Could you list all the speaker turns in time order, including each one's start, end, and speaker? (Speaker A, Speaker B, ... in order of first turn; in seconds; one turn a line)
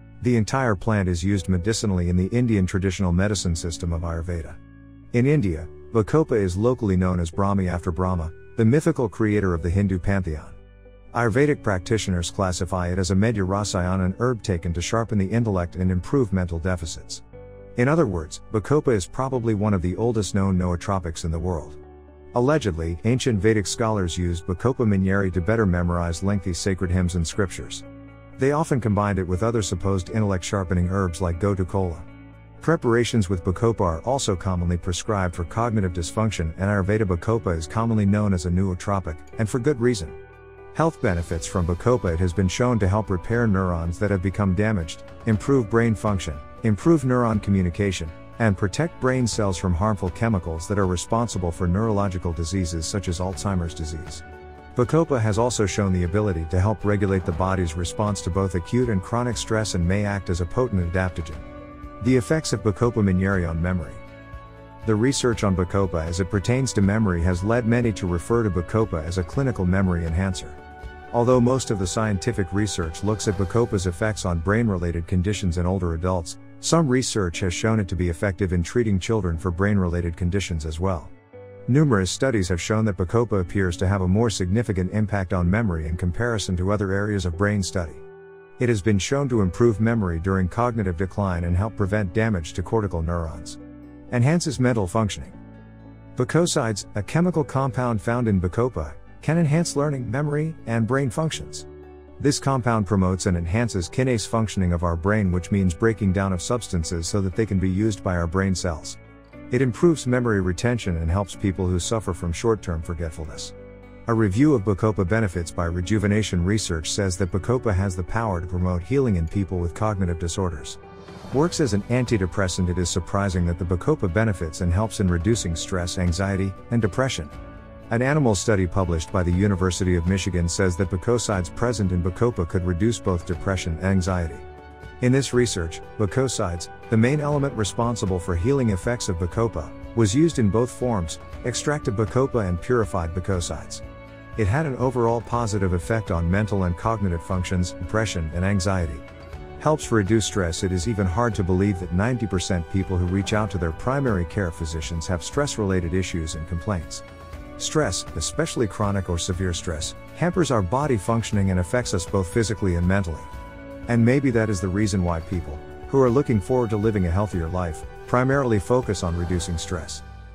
Speaker A: 0.2-4.6
Speaker A: 5.1-10.6
Speaker A: 11.1-17.2
Speaker A: 17.8-21.8
Speaker A: 22.3-27.8
Speaker A: 28.4-32.1
Speaker A: 32.6-40.1
Speaker A: 40.7-54.2
Speaker A: 54.8-61.4
Speaker A: 62.0-64.0
Speaker A: 64.8-70.6
Speaker A: 71.1-81.1
Speaker A: 81.7-88.0
Speaker A: 88.6-93.6
Speaker A: 94.1-95.3
Speaker A: 96.2-101.7
Speaker A: 102.2-109.0
Speaker A: 109.5-113.5
Speaker A: 114.0-120.8
Speaker A: 121.3-127.3
Speaker A: 127.9-134.4
Speaker A: 135.0-143.8
Speaker A: 144.3-149.0
Speaker A: 149.6-157.0
Speaker A: 157.6-163.3
Speaker A: 163.9-170.0